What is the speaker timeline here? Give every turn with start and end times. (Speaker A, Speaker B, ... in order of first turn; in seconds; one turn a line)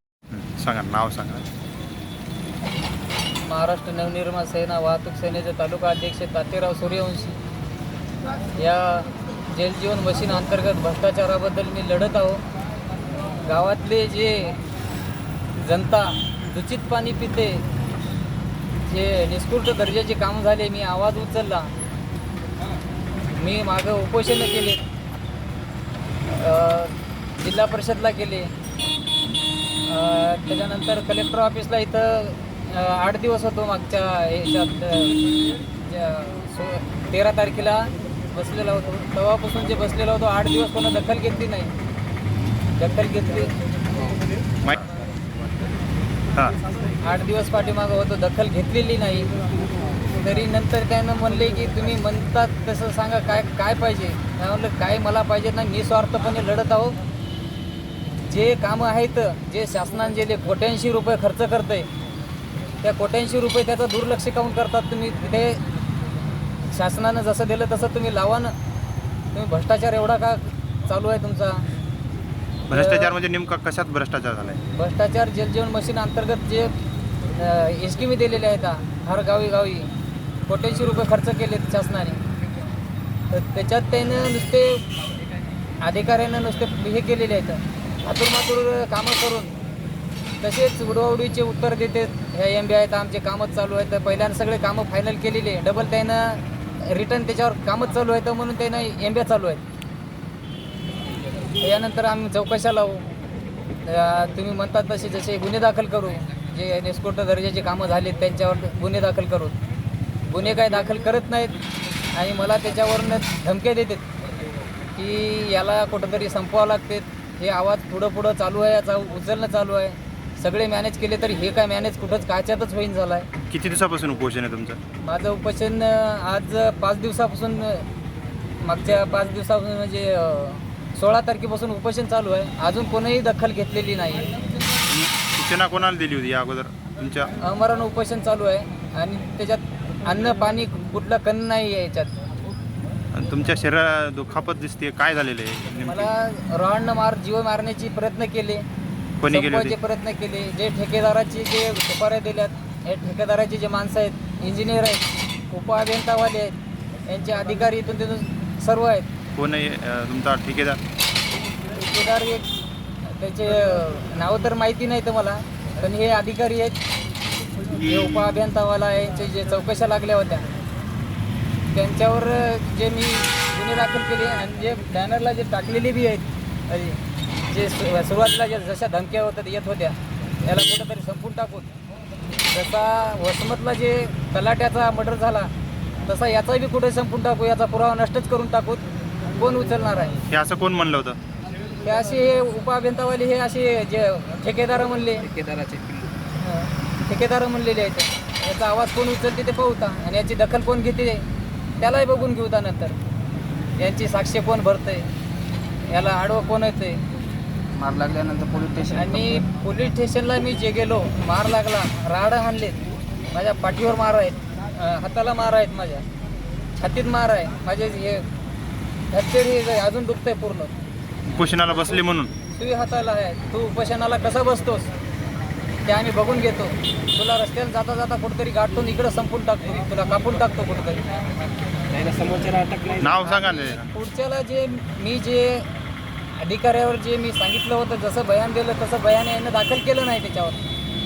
Speaker A: 0.3-1.4
Speaker B: 3.4-7.4
Speaker B: 8.6-12.4
Speaker B: 13.4-14.6
Speaker B: 15.6-17.6
Speaker B: 18.8-21.7
Speaker B: 23.3-24.8
Speaker B: 26.2-28.5
Speaker B: 29.9-41.7
Speaker B: 42.8-43.5
Speaker B: 47.0-49.3
Speaker B: 50.2-57.0
Speaker B: 58.2-61.9
Speaker B: 62.8-65.6
Speaker B: 66.7-68.5
Speaker B: 69.3-71.6
Speaker A: 72.7-74.6
Speaker B: 72.7-73.1
Speaker B: 74.7-76.7
Speaker B: 77.3-79.9
Speaker B: 80.5-82.2
Speaker B: 83.3-84.8
Speaker B: 85.8-89.5
Speaker B: 90.4-99.6
Speaker B: 101.6-103.1
Speaker B: 103.8-109.5
Speaker B: 110.2-111.5
Speaker B: 112.1-114.0
Speaker B: 115.0-123.3
Speaker A: 123.5-124.8
Speaker B: 125.0-127.8
Speaker B: 128.6-134.4
Speaker A: 134.9-137.3
Speaker B: 137.4-142.1
Speaker A: 143.1-146.1
Speaker B: 145.8-148.6
Speaker A: 149.2-149.7
Speaker B: 149.3-156.5
Speaker B: 157.1-159.1
Speaker A: 159.3-160.8
Speaker B: 161.8-162.5
Speaker B: 163.1-166.8
Speaker B: 167.8-170.5
Speaker B: 171.7-181.7
Speaker B: 182.4-185.5
Speaker B: 186.1-190.2
Speaker A: 190.3-191.2
Speaker B: 191.8-195.3
Speaker C: 195.2-196.1
Speaker B: 196.4-201.2
Speaker B: 201.8-203.0
Speaker B: 203.8-205.1
Speaker B: 205.9-207.0
Speaker C: 207.7-209.4
Speaker B: 208.9-212.8
Speaker B: 213.3-216.0
Speaker B: 216.8-218.2
Speaker B: 219.1-220.7
Speaker A: 221.3-222.3
Speaker B: 222.5-224.9
Speaker B: 225.8-231.1
Speaker C: 231.9-233.4
Speaker A: 233.0-233.9
Speaker B: 233.2-235.7
Speaker B: 236.4-240.6